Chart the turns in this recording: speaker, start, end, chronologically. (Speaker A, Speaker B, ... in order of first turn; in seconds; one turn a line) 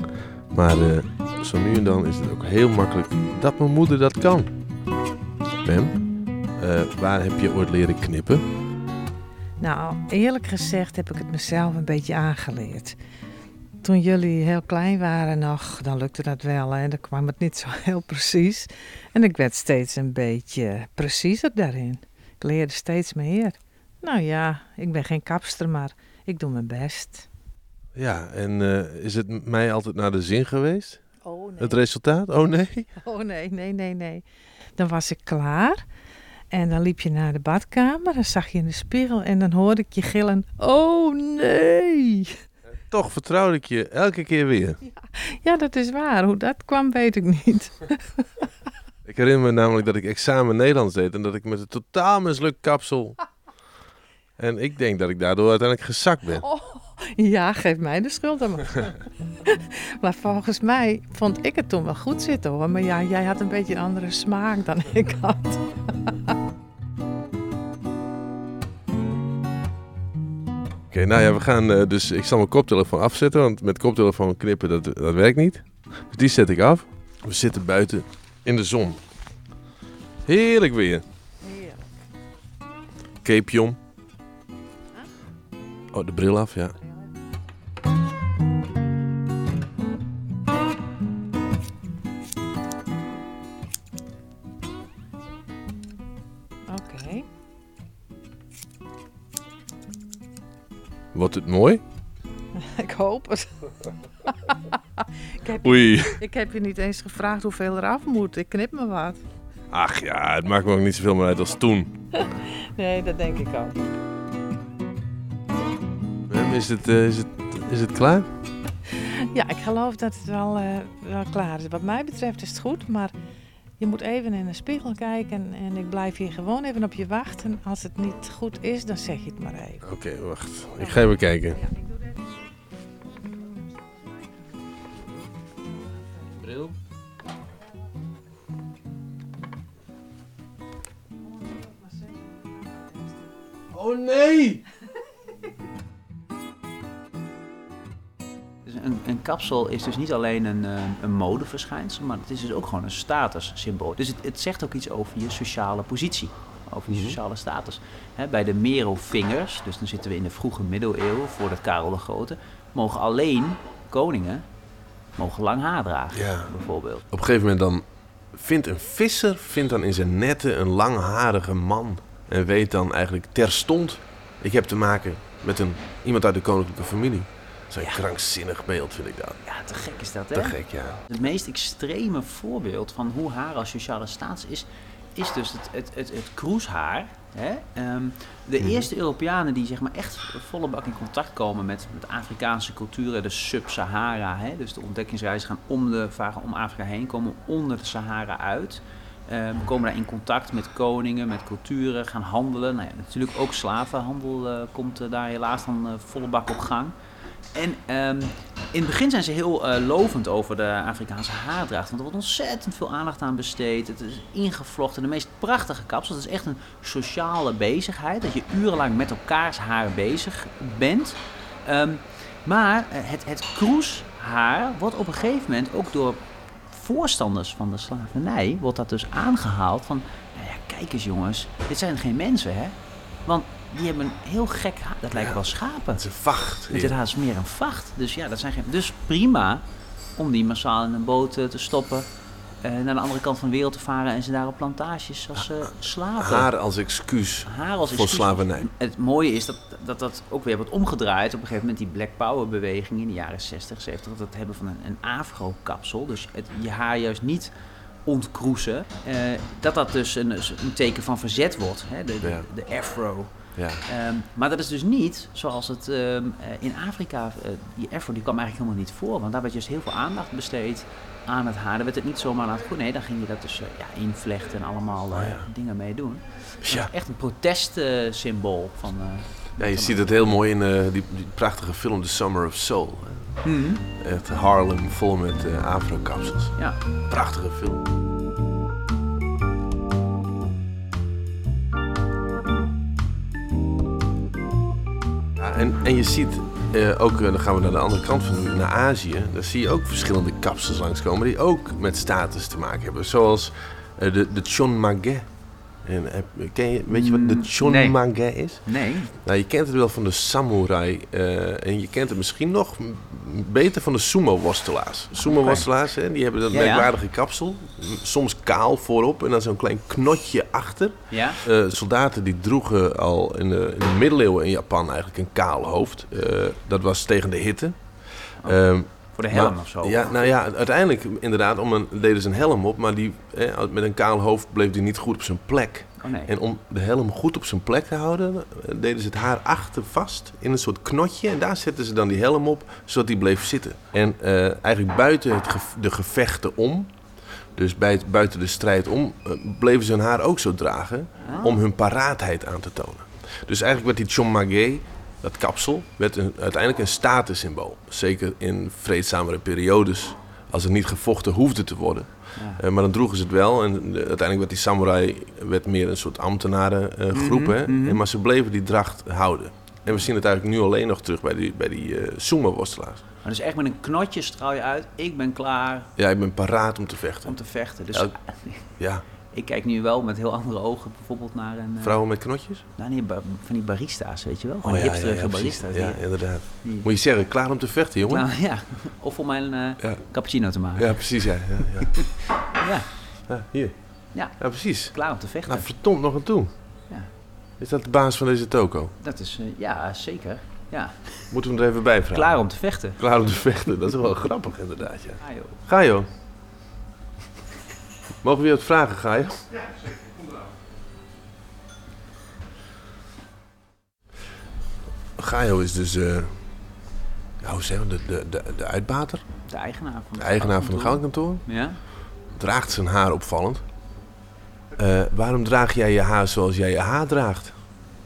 Speaker A: 0.5-4.5
Speaker A: 5.7-6.0
Speaker A: 6.6-8.5
Speaker B: 9.6-13.0
Speaker B: 13.8-27.3
Speaker A: 28.0-31.0
Speaker B: 31.2-31.8
Speaker A: 31.6-32.9
Speaker B: 33.0-34.2
Speaker B: 34.8-35.8
Speaker B: 36.5-42.4
Speaker A: 42.9-44.8
Speaker B: 45.1-48.5
Speaker A: 49.0-53.2
Speaker A: 54.4-56.5
Speaker B: 56.4-66.3
Speaker A: 70.9-79.0
Speaker A: 80.3-81.0
Speaker B: 81.4-81.8
Speaker A: 83.2-83.8
Speaker A: 85.9-86.8
Speaker B: 96.7-97.3
Speaker A: 101.1-101.8
Speaker B: 102.6-103.7
Speaker B: 104.2-109.2
Speaker A: 105.6-106.2
Speaker A: 109.7-111.9
Speaker B: 112.2-113.8
Speaker A: 116.3-118.3
Speaker B: 119.0-123.1
Speaker B: 123.8-129.8
Speaker A: 129.8-131.6
Speaker A: 136.4-136.8
Speaker B: 141.4-143.2
Speaker A: 143.7-144.6
Speaker C: 148.7-164.4
Speaker A: 156.9-157.2
Speaker C: 165.2-167.1
Speaker A: 166.1-166.5
Speaker A: 167.1-179.4
Speaker C: 179.4-206.9
Speaker A: 180.3-181.0
Speaker A: 188.6-188.9
Speaker C: 207.5-236.1
Speaker A: 235.2-235.4
Speaker A: 235.9-237.0
Speaker C: 236.7-239.6
Speaker C: 240.2-242.1
Speaker C: 242.6-246.5
Speaker A: 246.2-248.7
Speaker C: 247.5-257.5
Speaker C: 258.1-263.3
Speaker A: 263.6-263.9
Speaker C: 263.9-280.1
Speaker A: 275.1-275.5
Speaker A: 276.6-276.9
Speaker A: 279.6-283.4
Speaker C: 283.4-283.8
Speaker A: 284.0-286.6
Speaker A: 287.1-287.9
Speaker A: 295.4-305.3
Speaker A: 305.8-346.9
Speaker C: 306.9-308.0
Speaker C: 308.7-309.1
Speaker C: 315.2-315.7
Speaker C: 316.5-316.9
Speaker C: 321.1-321.4
Speaker C: 328.4-330.2
Speaker C: 336.0-336.3
Speaker A: 347.6-373.0
Speaker C: 351.2-351.6
Speaker C: 362.4-362.6
Speaker C: 367.1-368.0
Speaker C: 373.2-375.9
Speaker A: 376.0-377.4
Speaker C: 377.2-378.7
Speaker A: 378.8-379.0
Speaker C: 379.3-382.0
Speaker A: 381.8-382.6
Speaker C: 382.8-386.1
Speaker A: 384.6-388.3
Speaker C: 386.6-386.9
Speaker C: 388.1-391.1
Speaker A: 390.8-392.1
Speaker C: 391.8-392.9
Speaker A: 393.3-396.5
Speaker C: 394.1-395.7
Speaker A: 397.6-398.9
Speaker C: 399.0-401.3
Speaker A: 401.3-402.4
Speaker C: 402.1-403.0
Speaker A: 403.0-406.1
Speaker C: 405.2-405.6
Speaker A: 408.2-409.5
Speaker A: 415.2-416.3
Speaker A: 417.4-419.2
Speaker C: 419.5-421.8
Speaker A: 420.2-421.4
Speaker A: 422.3-423.6
Speaker A: 424.8-427.5